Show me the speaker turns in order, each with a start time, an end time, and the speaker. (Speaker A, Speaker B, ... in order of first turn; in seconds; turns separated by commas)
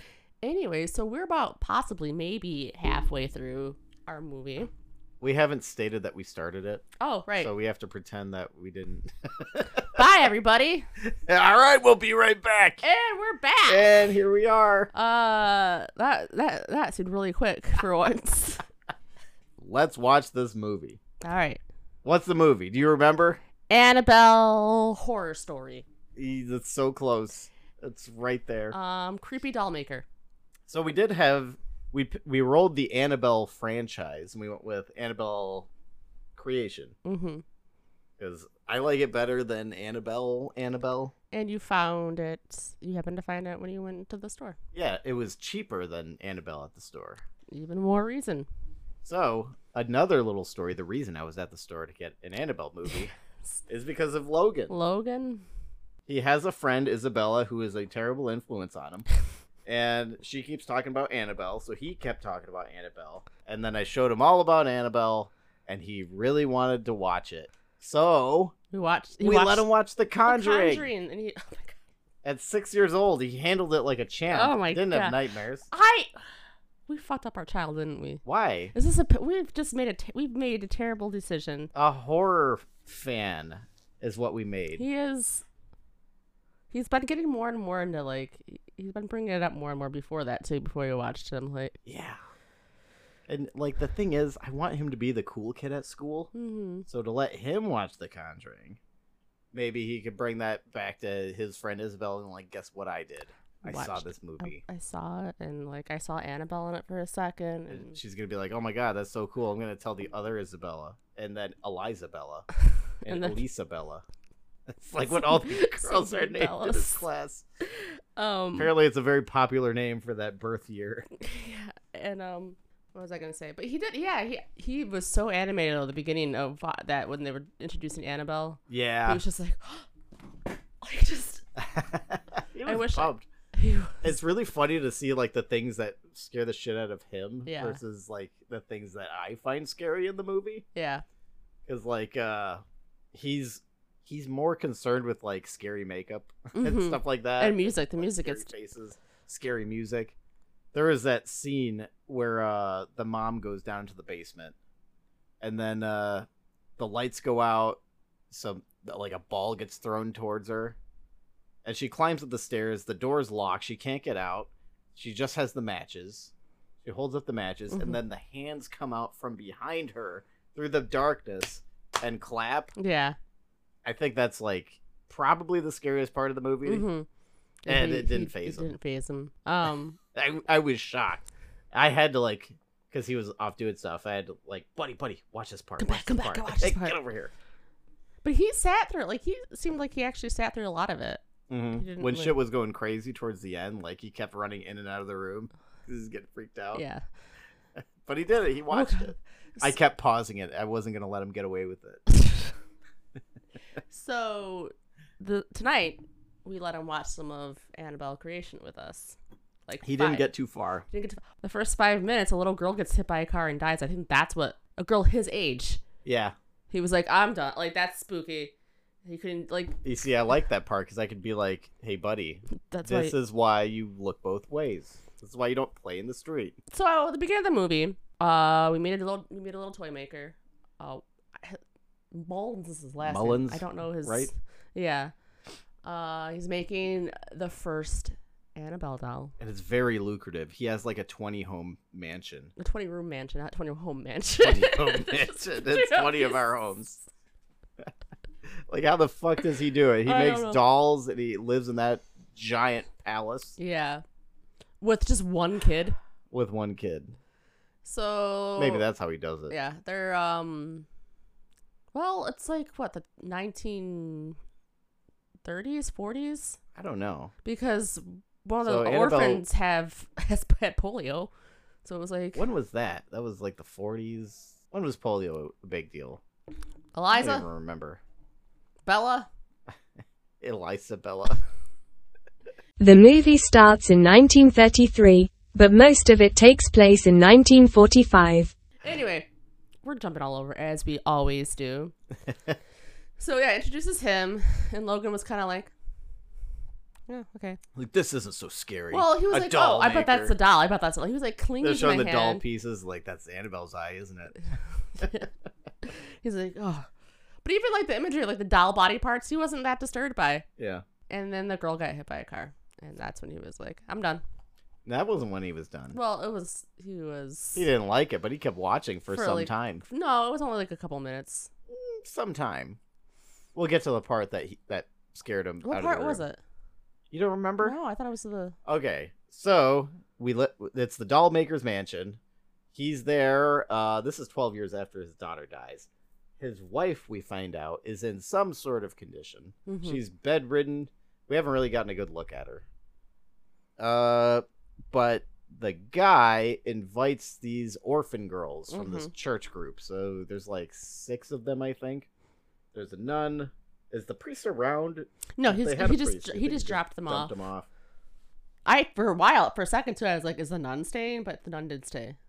Speaker A: 0.4-4.7, Speaker B: 5.2-6.8, Speaker A: 7.0-7.5, Speaker B: 7.4-10.0, Speaker A: 9.9-10.9, Speaker B: 11.0-12.8, Speaker A: 12.8-13.9, Speaker B: 13.7-14.9, Speaker A: 14.9-18.6, Speaker B: 19.6-21.0, Speaker A: 21.2-21.6, Speaker B: 22.0-23.4, Speaker A: 23.7-25.9, Speaker B: 26.1-28.7, Speaker A: 28.7-30.1, Speaker B: 30.7-35.7, Speaker B: 36.4-37.0, Speaker A: 37.0-37.4, Speaker B: 38.2-41.1, Speaker A: 41.3-44.6, Speaker B: 44.7-47.2, Speaker A: 47.5-48.5, Speaker B: 49.0-53.1, Speaker B: 53.7-54.7, Speaker A: 54.7-55.4, Speaker B: 56.1-59.0, Speaker B: 59.6-68.5, Speaker A: 68.7-69.7, Speaker B: 69.2-70.9, Speaker A: 70.2-71.8, Speaker B: 72.2-75.7, Speaker A: 74.3-75.2, Speaker A: 75.7-76.1, Speaker A: 76.9-78.2, Speaker B: 78.2-78.7, Speaker A: 78.7-81.7, Speaker B: 81.7-84.8, Speaker A: 84.7-85.4, Speaker A: 86.7-91.8, Speaker B: 91.8-92.2, Speaker B: 93.3-96.3, Speaker A: 96.3-96.8, Speaker B: 96.9-98.8, Speaker B: 99.5-104.6, Speaker A: 103.6-108.0, Speaker B: 107.7-112.5, Speaker B: 113.0-114.0, Speaker A: 113.0-113.4, Speaker B: 114.7-117.4, Speaker A: 115.0-117.0, Speaker A: 117.6-118.7, Speaker B: 118.5-121.1, Speaker A: 121.2-129.9, Speaker B: 128.7-129.2, Speaker A: 130.8-131.4, Speaker B: 131.6-133.3, Speaker A: 132.7-134.1, Speaker B: 134.0-140.6, Speaker A: 137.4-137.8, Speaker A: 140.7-141.0, Speaker B: 141.7-142.6, Speaker B: 143.1-150.1, Speaker A: 146.5-148.5, Speaker B: 150.7-154.5, Speaker B: 155.4-160.8, Speaker B: 161.6-166.3, Speaker B: 166.8-172.7, Speaker A: 167.7-168.0, Speaker A: 172.8-173.2, Speaker B: 173.8-176.8, Speaker A: 176.6-177.1, Speaker A: 177.6-180.0, Speaker B: 177.7-178.7, Speaker B: 180.1-187.3, Speaker A: 185.8-187.0, Speaker A: 188.2-191.2, Speaker B: 191.5-196.8, Speaker A: 191.8-192.3, Speaker A: 196.7-197.0, Speaker B: 197.8-202.0, Speaker A: 198.7-199.7, Speaker A: 202.2-202.5, Speaker A: 203.9-210.3, Speaker B: 209.8-210.8, Speaker A: 210.9-215.8, Speaker B: 216.0-216.3, Speaker A: 216.7-218.5, Speaker A: 219.0-219.8, Speaker B: 219.8-226.6, Speaker A: 222.7-223.1, Speaker A: 226.7-231.6, Speaker A: 232.1-235.1, Speaker B: 233.0-234.3, Speaker A: 235.8-239.3, Speaker B: 239.4-242.5, Speaker A: 242.6-246.4, Speaker B: 244.4-247.0, Speaker B: 248.7-253.6, Speaker A: 250.0-250.6, Speaker A: 253.6-254.0, Speaker A: 254.8-256.0, Speaker B: 256.3-257.2, Speaker A: 257.8-258.9, Speaker B: 258.6-259.5, Speaker A: 259.5-260.9, Speaker A: 261.9-264.4, Speaker A: 265.4-266.6, Speaker B: 266.8-267.3, Speaker A: 267.4-271.3, Speaker B: 268.6-269.4, Speaker A: 271.8-272.4, Speaker B: 272.3-276.2, Speaker A: 276.9-277.5, Speaker B: 277.1-278.0, Speaker A: 278.9-279.3, Speaker B: 280.4-281.4, Speaker C: 282.8-288.5, Speaker A: 288.8-289.3, Speaker A: 289.8-291.9, Speaker B: 292.3-292.5, Speaker A: 293.2-295.7, Speaker A: 297.1-297.6, Speaker B: 297.7-300.4, Speaker A: 298.9-302.4, Speaker B: 301.6-304.4, Speaker A: 304.9-305.3, Speaker A: 305.8-306.9, Speaker A: 307.4-310.4, Speaker B: 310.6-310.8, Speaker A: 311.1-314.2, Speaker B: 314.9-316.0, Speaker A: 315.9-317.7, Speaker B: 317.5-319.8, Speaker A: 319.1-321.5, Speaker B: 321.7-322.8, Speaker B: 323.5-326.2, Speaker A: 325.6-326.4, Speaker B: 327.1-327.8, Speaker A: 327.6-328.5, Speaker B: 328.6-332.2, Speaker B: 332.7-335.9, Speaker B: 336.4-342.6, Speaker A: 339.6-340.0, Speaker B: 343.8-352.1, Speaker A: 348.7-349.1, Speaker B: 352.7-357.7, Speaker A: 355.4-357.3, Speaker A: 358.6-362.2